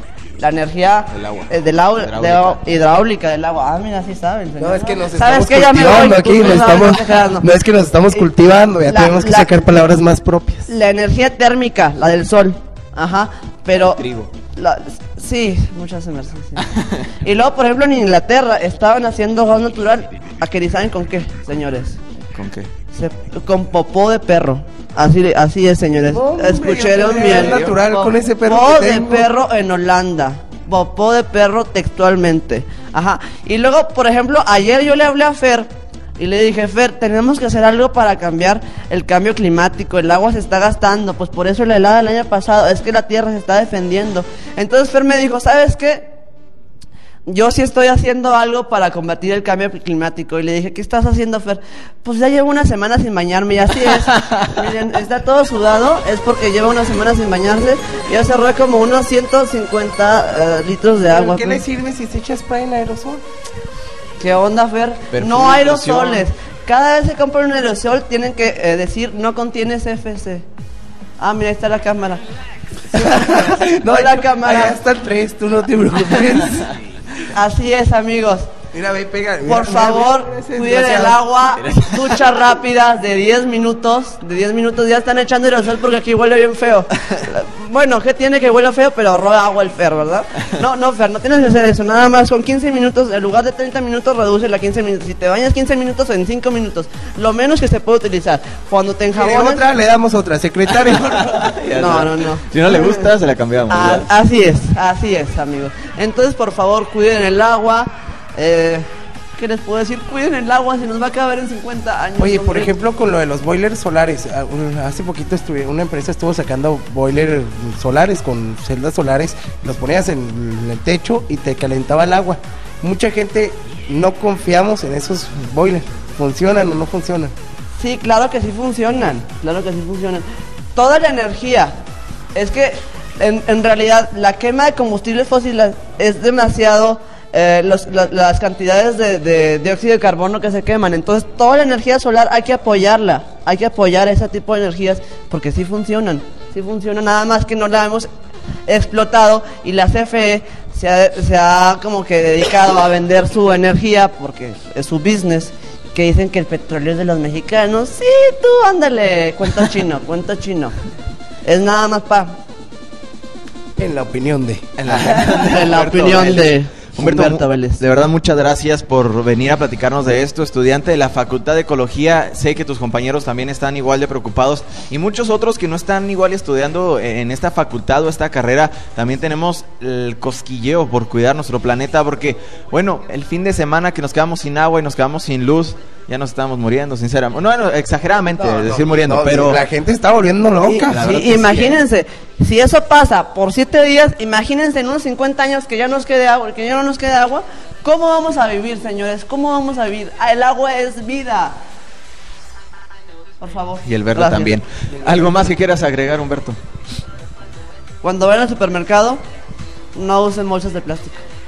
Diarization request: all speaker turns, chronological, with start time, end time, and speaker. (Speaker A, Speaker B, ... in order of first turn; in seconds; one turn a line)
Speaker A: 0.4-7.5
Speaker B: 1.1-2.6
Speaker C: 4.6-10.7
Speaker A: 8.8-9.5
Speaker A: 10.7-14.0
Speaker B: 13.8-14.3
Speaker A: 14.5-16.6
Speaker A: 17.2-22.0
Speaker B: 22.3-22.7
Speaker A: 22.9-46.1
Speaker C: 26.1-29.3
Speaker B: 27.3-27.8
Speaker A: 47.3-61.6
Speaker C: 61.1-63.2
Speaker A: 64.2-70.5
Speaker B: 65.1-66.3
Speaker A: 71.2-72.2
Speaker A: 72.9-74.8
Speaker C: 72.9-76.7
Speaker A: 77.3-78.5
Speaker C: 78.7-81.2
Speaker A: 79.5-99.6
Speaker C: 99.1-101.5
Speaker B: 101.2-104.1
Speaker A: 101.8-103.1
Speaker A: 103.7-112.7
Speaker C: 112.2-127.3
Speaker A: 127.8-130.2
Speaker A: 130.8-131.8
Speaker A: 132.3-148.1
Speaker A: 148.7-160.7
Speaker A: 161.4-162.3
Speaker C: 163.8-166.4
Speaker B: 164.8-189.6
Speaker A: 165.3-167.8
Speaker C: 188.4-191.1
Speaker A: 190.6-201.6
Speaker B: 190.9-191.8
Speaker A: 203.4-204.6
Speaker B: 203.8-206.6
Speaker A: 208.0-209.2
Speaker A: 209.9-211.2